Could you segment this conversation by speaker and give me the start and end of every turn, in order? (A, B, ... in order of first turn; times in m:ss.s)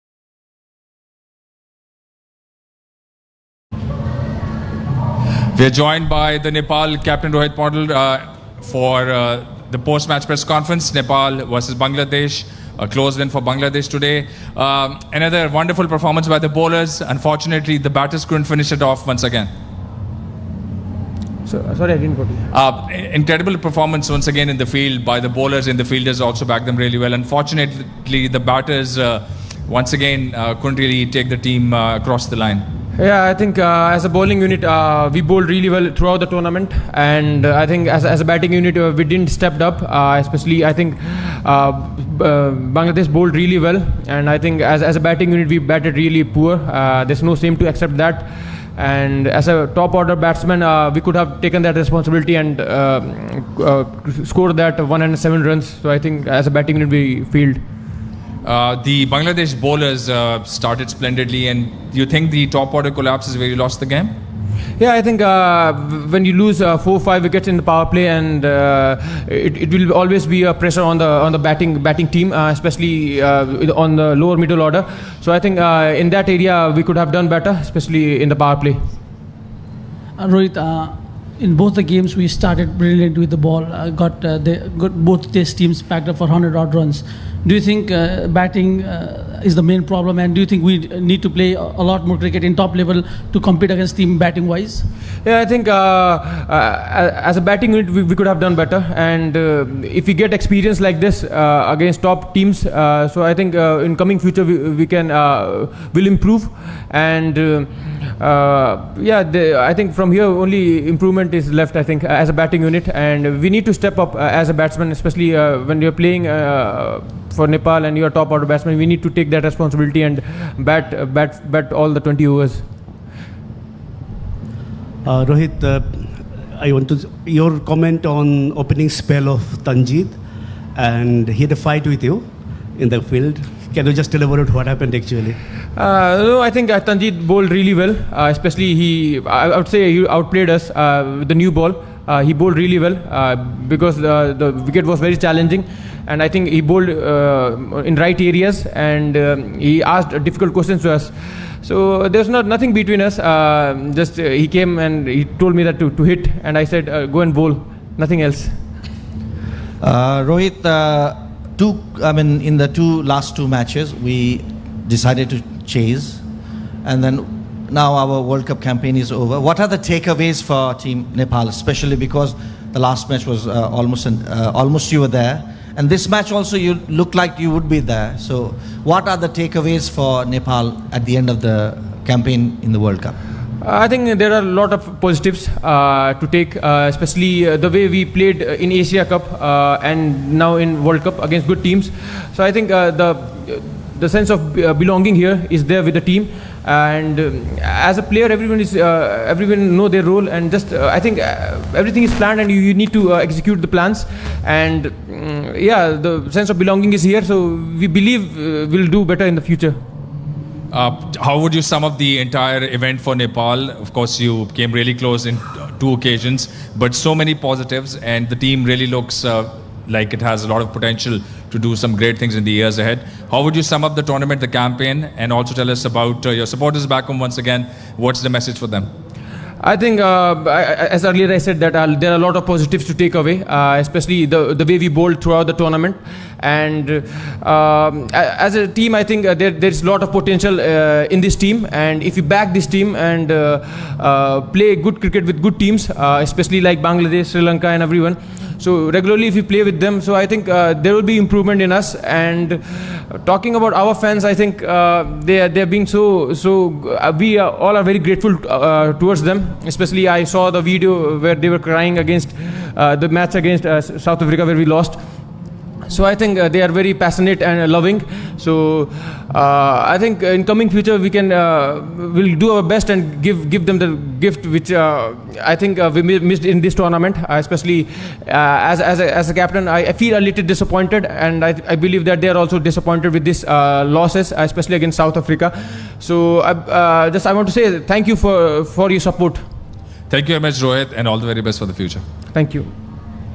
0:05.5-0:19.5 A
0:21.5-0:22.4 B
0:22.5-0:32.6 A
0:33.0-0:57.6 B
0:58.4-1:04.1 A
1:04.8-1:18.8 B
1:20.2-1:34.8 C
1:35.2-2:02.7 B
2:05.1-2:10.2 D
2:10.8-2:12.2 D
2:12.8-2:15.4 D
2:15.8-2:38.6 B
2:39.8-2:46.2 E
2:46.8-3:03.2 E
3:03.6-3:29.8 B
3:30.7-3:48.9 A
3:49.6-4:25.0 B
4:25.9-4:49.4 B
4:50.1-4:52.0 A
4:52.3-4:52.7 B